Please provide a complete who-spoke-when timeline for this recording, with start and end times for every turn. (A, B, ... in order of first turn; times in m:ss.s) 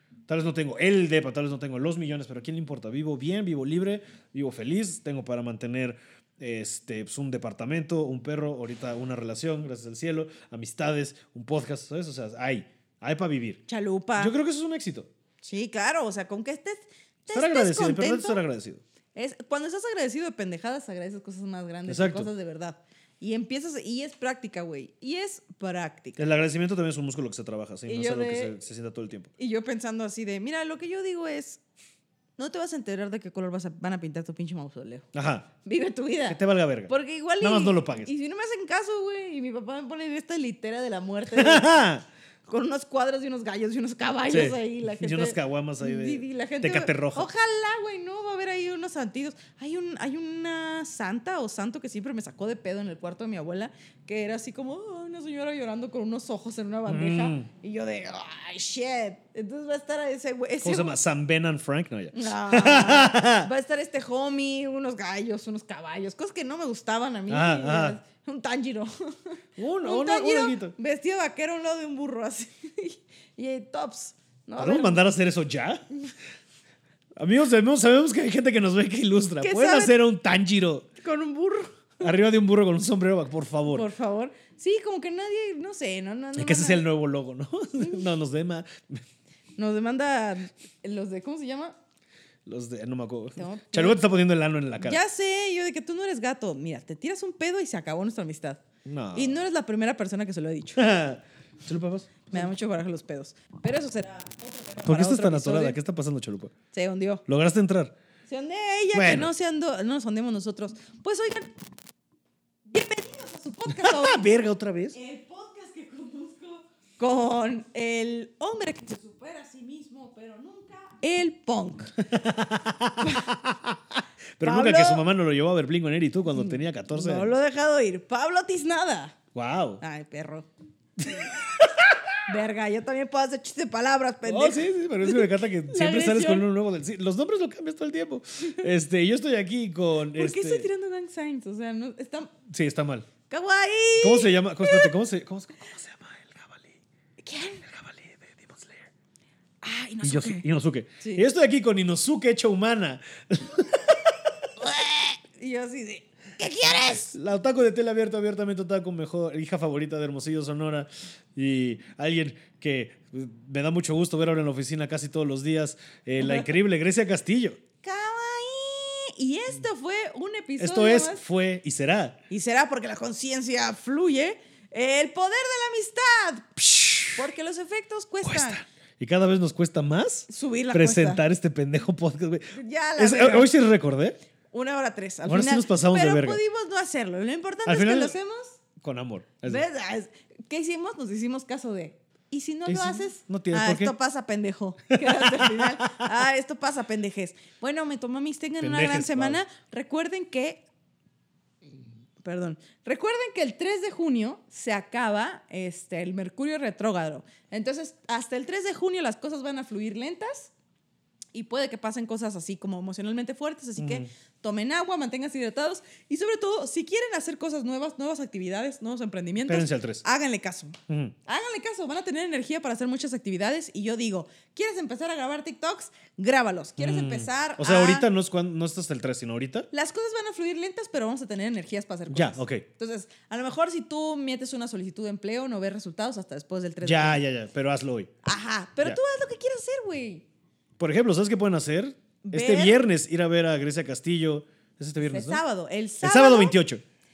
0:00.3-0:13.6 A
0:13.7-0:14.3 B
0:14.2-0:15.1 A
0:15.4-0:18.4 B
0:17.3-0:18.8 A
0:19.2-0:26.3 B
0:21.9-0:22.3 A
0:26.2-0:29.3 A
0:27.9-0:28.5 B
0:29.4-0:31.6 B
0:32.4-0:35.1 B
0:35.1-0:35.5 A
0:35.6-0:41.8 B
0:36.3-0:38.1 A
0:41.3-0:42.0 A
0:42.5-1:01.0 B
0:44.3-0:47.3 A
0:56.9-0:57.5 A
1:00.6-1:03.5 A
1:02.1-1:15.0 B
1:07.3-1:08.0 A
1:09.6-1:10.8 A
1:14.6-1:15.9 A
1:17.2-1:20.9 A
1:19.4-1:19.9 B
1:21.0-1:21.8 B
1:22.0-1:23.9 A
1:23.7-1:26.8 B
1:26.4-1:29.0 A
1:27.8-1:28.0 B
1:29.6-1:31.8 B
1:32.5-1:35.0 A
1:33.4-1:34.0 B
1:34.8-1:38.6 B
1:38.8-1:39.4 A
1:39.1-1:40.8 B
1:40.8-1:42.5 A
1:42.3-1:45.8 B
1:44.8-1:46.5 A
1:46.7-1:47.2 B
1:47.3-1:47.9 A
1:48.3-1:51.5 B
1:48.9-1:49.3 A
1:52.7-2:02.0 B
1:53.7-1:55.0 A
2:02.0-2:03.8 A
2:03.0-2:03.3 B
2:04.4-2:07.3 A
2:04.4-2:05.0 B
2:06.3-2:09.2 B
2:09.4-2:09.8 A
2:09.8-2:10.5 B
2:11.0-2:12.2 A
2:11.0-2:11.4 B
2:12.2-2:16.5 B
2:14.2-2:20.7 A
2:20.2-2:22.3 B
2:22.5-2:23.1 A
2:23.3-2:24.9 B
2:24.0-2:26.8 A
2:27.2-2:27.6 B
2:27.6-2:28.9 A
2:29.6-2:30.4 B
2:30.0-2:34.3 A
2:31.0-2:31.3 B
2:34.6-2:37.2 B
2:37.1-2:47.6 A
2:46.2-2:46.5 B
2:47.8-2:51.2 B
2:50.6-2:52.2 A
2:52.3-2:56.6 B
2:56.6-2:57.2 A
2:57.1-2:58.6 B
2:58.2-3:04.2 A
3:00.3-3:01.2 B
3:02.5-3:03.5 B
3:04.5-3:08.6 B
3:05.2-3:06.4 A
3:07.7-3:08.2 A
3:08.8-3:09.6 A
3:09.4-3:20.6 B
3:12.7-3:13.9 A
3:14.9-3:16.1 A
3:18.6-3:19.4 A
3:22.2-3:30.5 B
3:31.3-3:48.1 B
3:33.8-3:34.1 A
3:39.5-3:40.0 A
3:40.9-3:41.2 A
3:46.8-3:49.7 A
3:49.7-3:57.2 B
3:52.1-3:52.6 A
3:56.8-3:58.1 A
3:58.2-4:00.2 B
4:00.8-4:05.4 A
4:02.2-4:02.8 B
4:05.0-4:06.6 B
4:06.0-4:06.8 A